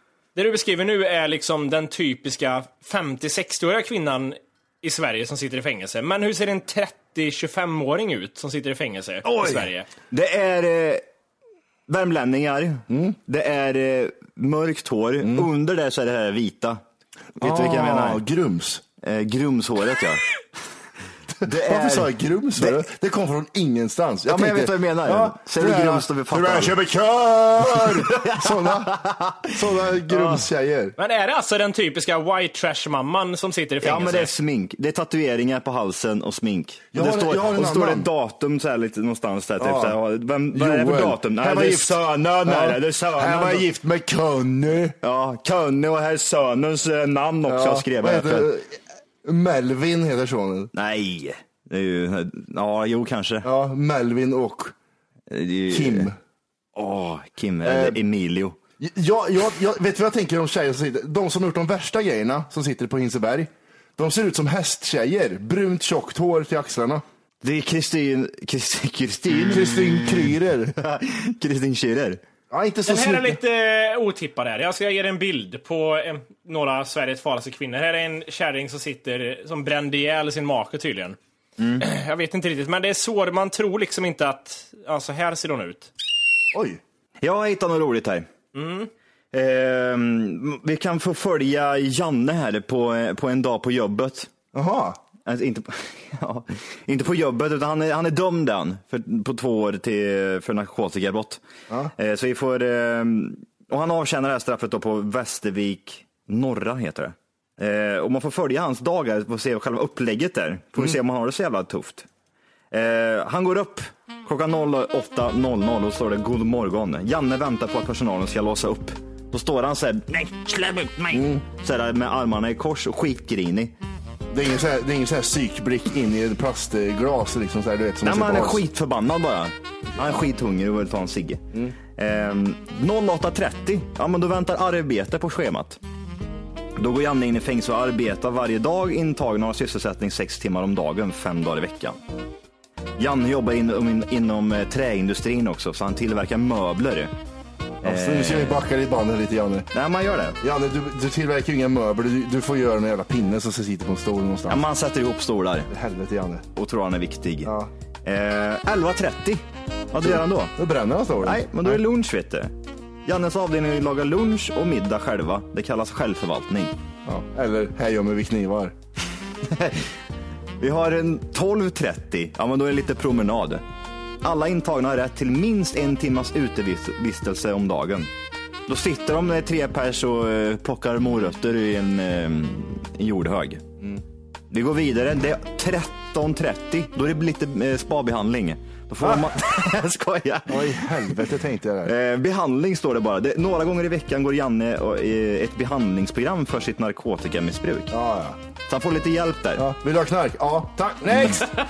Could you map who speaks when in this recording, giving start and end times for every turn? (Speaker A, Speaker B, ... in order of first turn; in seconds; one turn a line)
Speaker A: 0.3-9.9
Speaker B: 9.2-9.7
Speaker C: 10.1-11.0
Speaker C: 11.9-16.8
Speaker B: 12.9-13.2
Speaker B: 15.2-15.5
Speaker C: 17.4-18.2
Speaker B: 17.4-18.8
Speaker C: 19.0-20.2
Speaker C: 21.4-22.8
Speaker B: 21.4-28.9
Speaker C: 24.2-26.8
Speaker C: 27.6-29.6
Speaker B: 29.5-30.9
Speaker A: 31.0-34.3
Speaker C: 33.8-43.7
Speaker B: 36.9-38.1
Speaker B: 39.6-40.0
Speaker B: 40.5-45.0
Speaker C: 45.0-48.5
Speaker B: 47.5-50.7
Speaker C: 50.7-53.5
Speaker B: 53.4-54.8
Speaker C: 55.3-56.1
Speaker B: 55.7-56.2
Speaker C: 56.8-58.6
Speaker B: 57.6-58.0
Speaker B: 58.8-67.0
Speaker C: 67.4-72.2
Speaker B: 69.5-70.8
Speaker B: 72.5-73.4
Speaker A: 72.9-81.2
Speaker C: 81.6-81.9
Speaker A: 81.8-85.9
Speaker B: 86.5-86.8
Speaker C: 87.2-88.3
Speaker A: 88.5-88.9
Speaker C: 89.3-94.3
Speaker B: 94.5-95.0
Speaker C: 95.2-101.4
Speaker C: 102.0-112.1
Speaker C: 112.7-123.7
Speaker B: 121.1-121.4
Speaker B: 124.3-128.6
Speaker C: 128.0-135.8
Speaker C: 136.8-142.0
Speaker C: 143.0-147.1
Speaker B: 147.8-149.7
Speaker C: 147.8-148.6
Speaker C: 149.7-150.4
Speaker B: 150.4-154.6
Speaker C: 154.5-155.7
Speaker B: 155.7-156.5
Speaker C: 156.6-157.5
Speaker B: 157.4-157.7
Speaker C: 158.0-160.6
Speaker B: 160.0-161.8
Speaker C: 161.2-162.5
Speaker C: 163.1-166.7
Speaker B: 167.1-168.7
Speaker C: 169.4-169.9
Speaker C: 170.6-173.6
Speaker C: 174.2-178.1
Speaker C: 178.7-183.6
Speaker C: 184.5-191.2
Speaker B: 189.0-189.3
Speaker B: 190.5-191.9
Speaker C: 191.8-198.0
Speaker B: 197.9-198.4
Speaker C: 198.7-199.7
Speaker B: 199.6-201.5